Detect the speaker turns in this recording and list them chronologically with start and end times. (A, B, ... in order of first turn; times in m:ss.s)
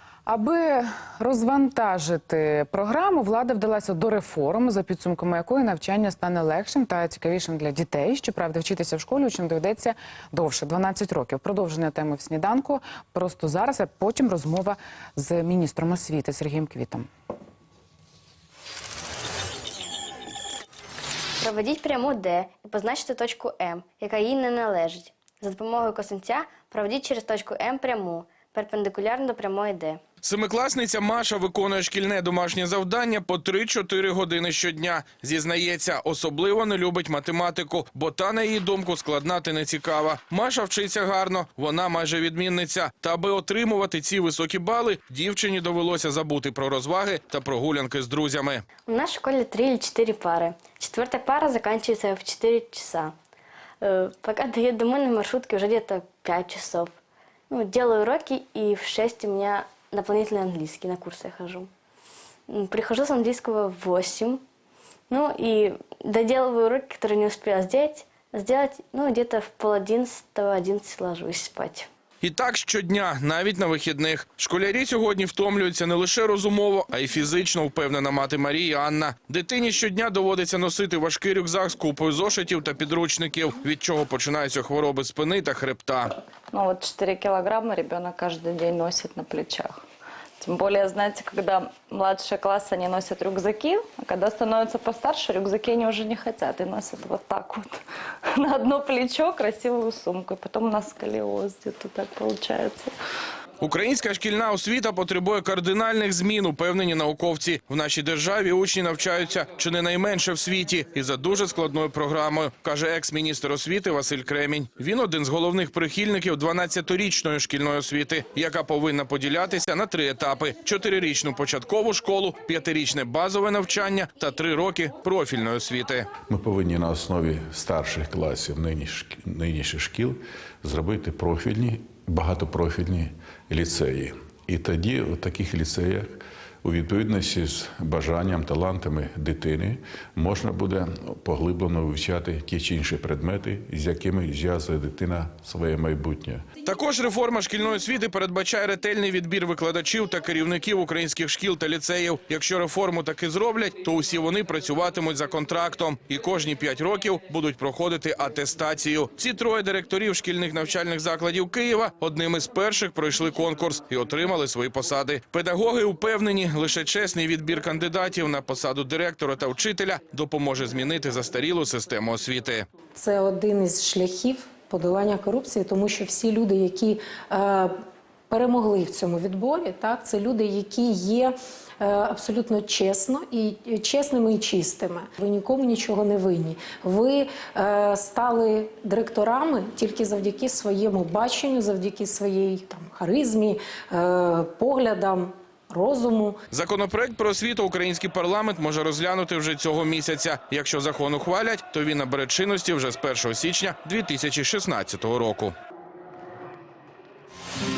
0:00.3-0:17.1 A
0:21.4-0:30.0 B
0:30.2-0:48.6 C
0:48.8-0:53.1 B
0:53.8-0:56.9 B
0:57.5-1:01.7 B
1:02.5-1:04.4 B
1:05.1-1:11.9 B
1:12.2-1:26.1 C
1:26.5-1:29.8 D
1:30.4-1:37.8 D
1:38.3-1:42.9 D
1:43.6-2:06.0 C
2:06.3-2:26.4 E
2:26.6-2:52.6 C
2:52.9-2:57.7 F
2:58.3-3:16.4 F
3:16.5-3:25.5 C